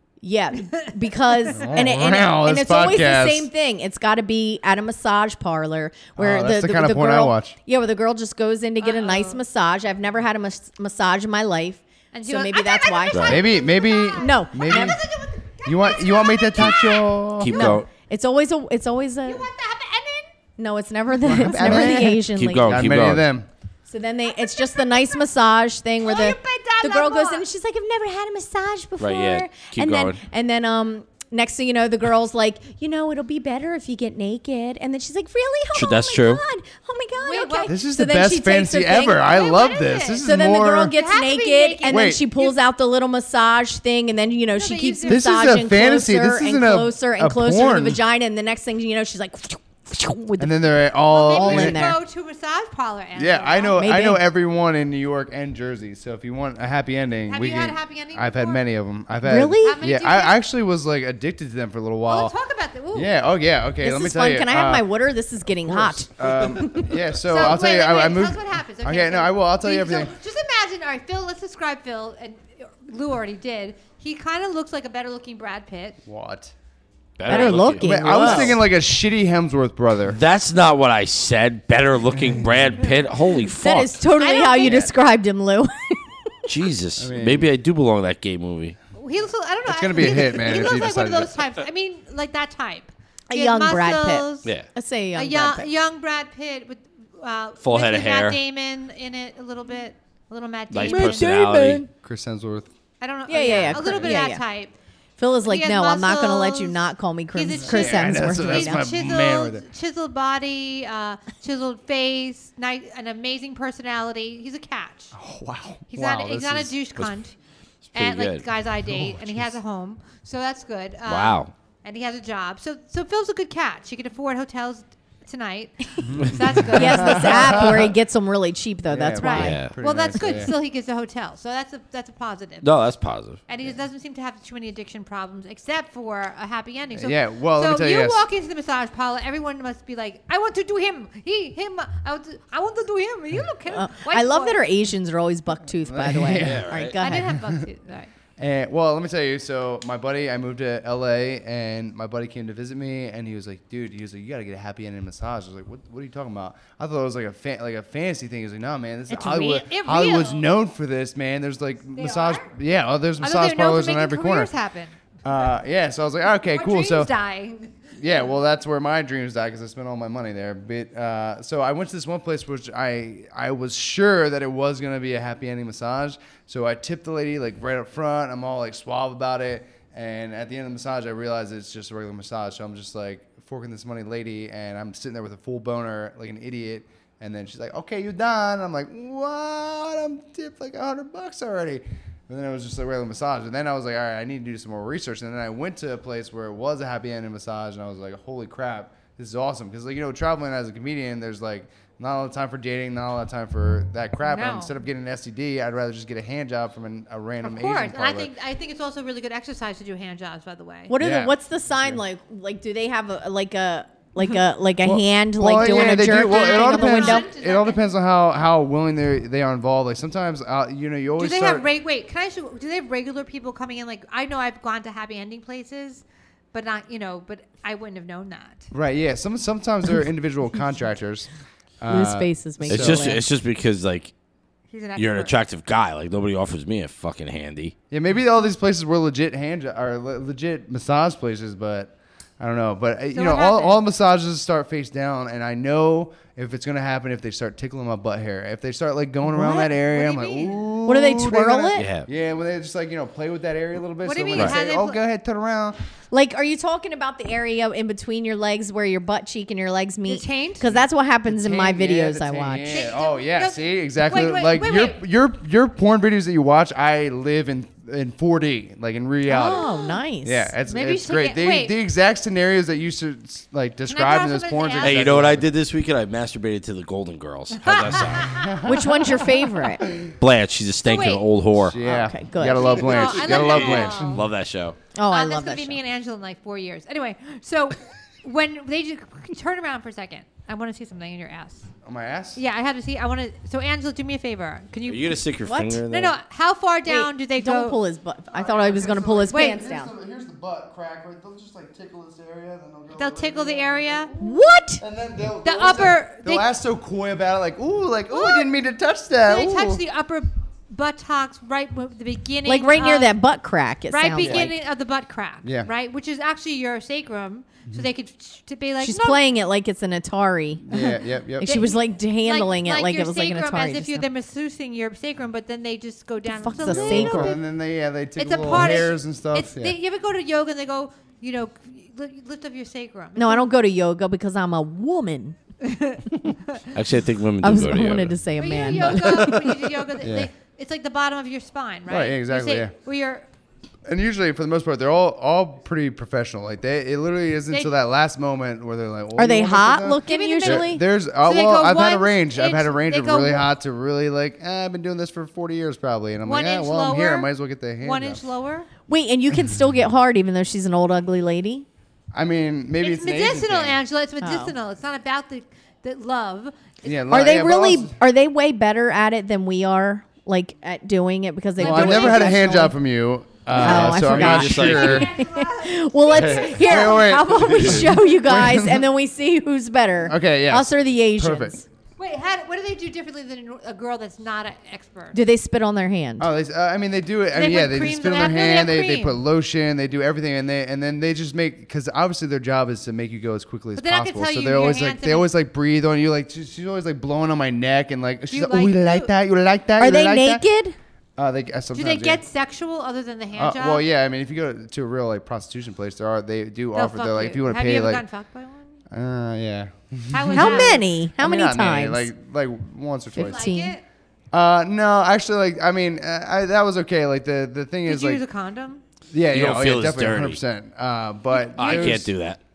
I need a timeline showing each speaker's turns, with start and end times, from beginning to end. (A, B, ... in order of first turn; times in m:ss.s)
0:00.2-0:13.6 A
0:00.6-0:01.6 B
0:01.5-0:03.5 C
0:06.2-0:07.6 C
0:08.8-0:09.4 B
0:12.1-0:17.1 B
0:13.1-0:13.4 D
0:13.3-0:15.0 C
0:14.2-0:15.0 A
0:15.6-0:17.8 C
0:17.4-0:17.9 D
0:17.5-0:19.4 A
0:19.2-0:20.3 B
0:20.6-0:22.8 A
0:21.2-0:23.5 C
0:21.6-0:23.3 D
0:23.9-0:39.5 A
0:24.3-0:25.2 B
0:26.0-0:27.4 B
0:29.0-0:30.2 D
0:35.7-0:36.4 D
0:37.2-0:37.7 B
0:37.7-0:40.9 C
0:39.2-0:40.3 B
0:40.2-0:50.5 A
0:40.8-0:42.6 B
0:41.8-0:42.2 C
0:44.5-0:45.4 B
0:45.1-0:48.0 C
0:50.4-0:51.8 C
0:51.1-0:53.8 B
0:51.2-0:52.0 A
0:53.1-1:02.3 C
0:53.7-0:54.2 A
0:57.3-0:58.6 B
0:59.2-0:59.8 A
0:59.6-1:00.4 B
1:02.0-1:03.1 B
1:02.9-1:04.8 C
1:03.8-1:07.0 A
1:05.7-1:10.1 C
1:07.3-1:16.0 B
1:16.0-1:16.5 C
1:17.2-1:18.6 D
1:17.3-1:18.6 A
1:17.7-1:20.2 C
1:20.1-1:24.0 D
1:23.6-1:26.5 A
1:24.1-1:24.9 B
1:24.6-1:24.9 C
1:26.5-1:28.8 D
1:27.0-1:27.5 C
1:28.9-1:34.5 B
1:29.7-1:31.5 C
1:33.3-1:35.7 A
1:34.4-1:34.7 D
1:35.1-1:41.3 B
1:37.6-1:38.4 D
1:40.7-1:41.8 D
1:40.8-1:41.9 A
1:42.0-1:42.7 C
1:43.0-1:44.7 B
1:43.3-1:44.4 A
1:43.4-1:44.2 C
1:45.2-1:48.8 A
1:45.4-1:55.1 B
1:47.6-1:49.6 C
1:55.1-1:56.8 C
1:55.9-1:57.3 B
1:57.8-1:58.4 D
1:57.9-2:07.7 B
1:58.9-1:59.4 C
2:01.0-2:01.5 D
2:06.0-2:07.9 C
2:06.7-2:09.6 A
2:08.9-2:10.5 C
2:09.2-2:12.7 B
2:09.4-2:09.7 D
2:12.6-2:13.4 D
2:13.5-2:24.8 B
2:17.0-2:18.2 C
2:23.7-2:27.4 A
2:25.9-2:27.4 C
2:26.4-2:26.9 D
2:27.0-2:28.1 B
2:28.4-2:44.5 C
2:39.1-2:40.5 B
2:41.9-2:42.5 B
2:43.2-2:45.0 B
2:45.2-2:47.1 C
2:46.5-2:48.3 B
2:48.0-3:28.3 C
3:24.2-3:24.7 B
3:27.4-3:30.9 B
3:30.9-3:37.3 A
3:31.0-3:32.0 C
3:34.8-3:41.6 C
3:35.7-3:37.8 B
3:41.2-3:48.7 B
3:48.7-3:51.3 C
3:51.8-3:53.2 C
3:51.9-3:53.2 A
3:52.7-3:54.1 D
3:54.7-3:55.4 B
3:55.0-3:57.7 D
3:57.9-4:15.8 C
4:03.1-4:03.8 B
4:09.2-4:09.7 A
4:09.5-4:10.6 B
4:10.8-4:11.9 A
4:11.7-4:12.1 D
4:14.0-4:15.0 B
4:16.1-4:22.9 A
4:20.1-4:20.7 B
4:21.3-4:29.6 C
4:22.7-4:25.0 B
4:29.2-4:30.5 A
4:29.4-4:30.0 B
4:30.2-4:35.5 C
4:30.6-4:31.8 B
4:33.9-4:35.1 B
4:34.8-4:38.4 D
4:37.6-4:38.7 B
4:38.2-4:40.1 C
4:38.6-4:39.9 A
4:40.2-4:41.8 D
4:40.8-4:41.3 B
4:41.7-4:44.3 C
4:41.8-4:43.0 A
4:42.6-4:44.2 B
4:43.2-4:44.8 D
4:44.9-4:45.8 A
4:45.1-4:51.7 B
4:51.8-4:52.4 C
4:52.4-4:55.3 B
4:54.8-4:56.2 D
4:55.4-4:55.8 A
4:55.9-4:57.8 B
4:56.8-4:59.9 A
4:58.3-5:09.8 C
4:59.3-4:59.6 B
5:02.9-5:04.1 B
5:04.2-5:04.8 A
5:05.4-5:06.5 B
5:08.1-5:08.5 B
5:09.2-5:13.1 B
5:12.4-5:14.6 A
5:13.9-5:19.2 B
5:14.2-5:14.5 C
5:15.4-5:15.7 C
5:18.8-5:24.1 A
5:20.7-5:21.5 C
5:21.4-5:27.4 B
5:26.3-5:27.4 A
5:26.6-5:29.8 C
5:28.2-5:33.5 B
5:33.2-5:35.4 A
5:35.6-5:36.6 B
5:36.7-5:38.2 D
5:37.4-5:39.7 A
5:38.4-5:43.2 B
5:40.0-5:40.3 C
5:41.9-5:42.7 C
5:43.8-5:58.2 C
5:49.1-5:50.8 A
5:50.0-5:53.5 B
5:56.2-5:58.7 B
5:58.9-6:01.6 A
6:02.1-6:03.8 C
6:02.8-6:07.0 B
6:04.2-6:04.5 A
6:06.8-6:07.9 C
6:07.1-6:12.8 A
6:11.6-6:12.4 B
6:11.6-6:15.1 C
6:13.5-6:21.6 A
6:13.6-6:15.0 D
6:14.4-6:17.1 B
6:16.1-6:18.8 C
6:20.0-6:21.6 C
6:22.0-6:25.2 B
6:25.1-6:26.3 A
6:26.2-6:40.4 C
6:27.3-6:29.2 B
6:33.8-6:35.3 B
6:38.3-6:39.1 B
6:39.8-6:40.8 A
6:41.2-6:42.2 C
6:41.7-6:43.8 B
6:43.4-6:48.0 C
6:46.7-6:48.8 B
6:48.9-6:53.5 C
6:50.1-6:50.8 B
6:50.3-6:52.1 A
6:53.2-6:53.8 A
6:53.2-6:53.8 B
6:54.3-6:58.2 C
6:57.8-6:58.8 B
6:59.1-7:02.1 C
6:59.3-7:00.4 D
7:01.3-7:02.0 B
7:01.5-7:02.4 D